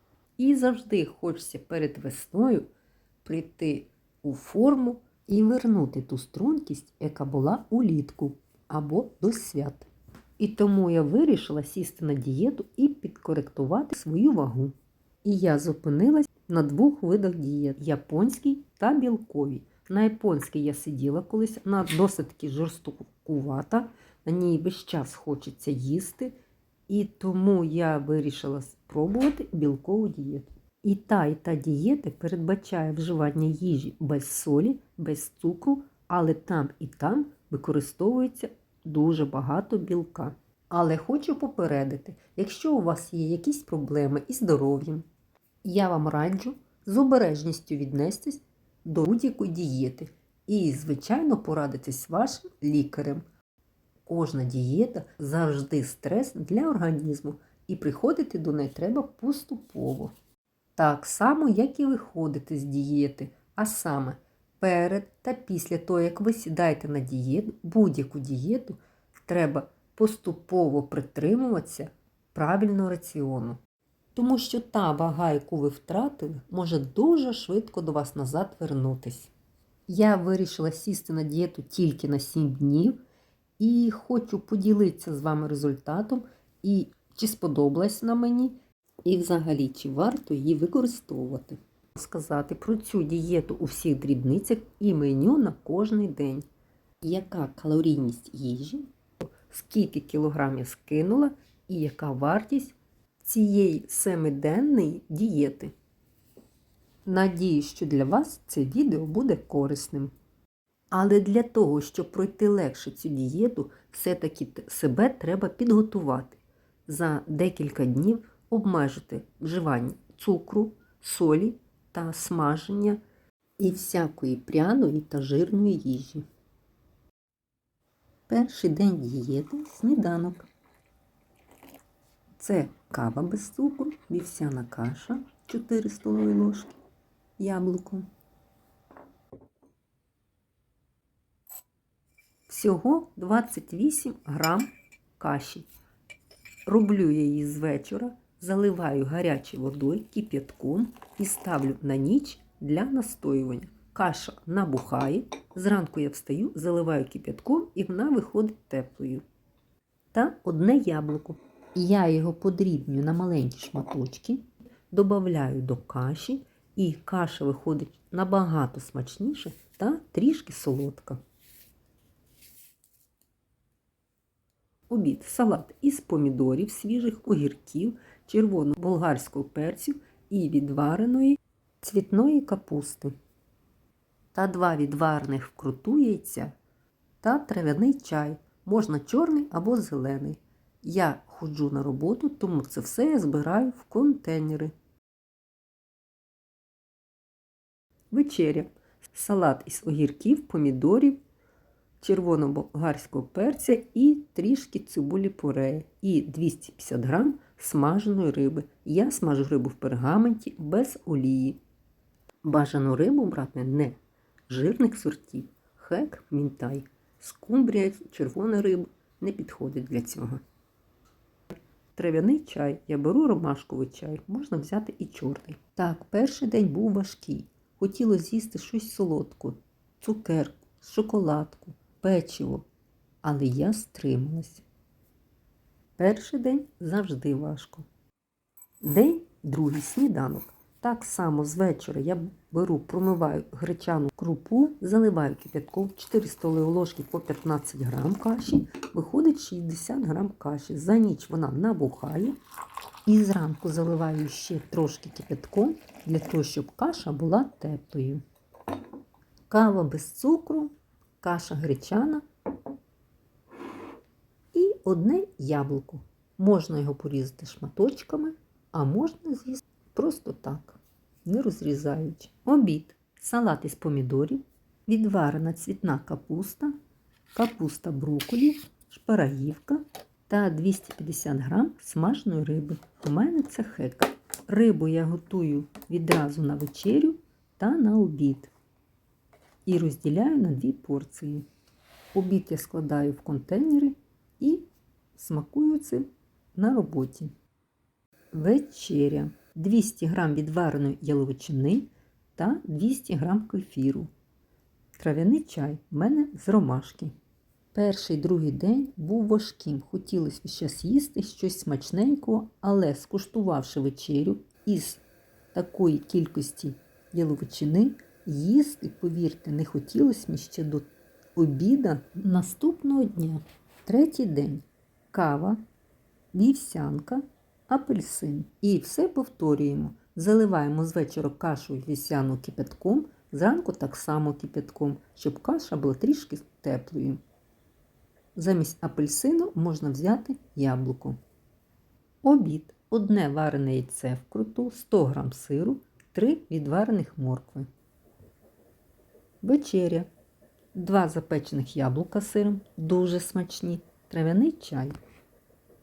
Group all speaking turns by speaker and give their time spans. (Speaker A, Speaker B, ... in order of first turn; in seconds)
Speaker A: 0.4-2.7, 3.2-9.9, 10.4-26.4, 26.9-45.0, 45.6-53.2, 54.0-60.1, 60.8-73.6, 74.1-79.3, 79.9-83.0, 83.6-96.5, 97.0-105.7, 107.0-110.1, 110.9-123.0, 123.6-126.2, 128.3-130.5, 132.4-136.8, 137.4-138.1, 142.5-145.7, 146.7-159.2, 160.1-171.2, 174.9-183.1, 184.3-186.6, 187.2-194.7, 198.1-201.2, 202.0-211.6, 212.4-220.4, 221.9-232.7, 233.2-234.6, 236.0-237.9, 238.8-252.4, 253.1-258.2, 259.5-262.2, 264.5-276.7, 277.4-288.5, 289.7-291.4, 292.1-297.3, 298.3-304.1, 305.0-307.1, 307.7-315.0, 315.5-325.6, 326.3-337.2, 338.4-341.2, 342.2-347.7, 349.4-350.1, 350.7-354.9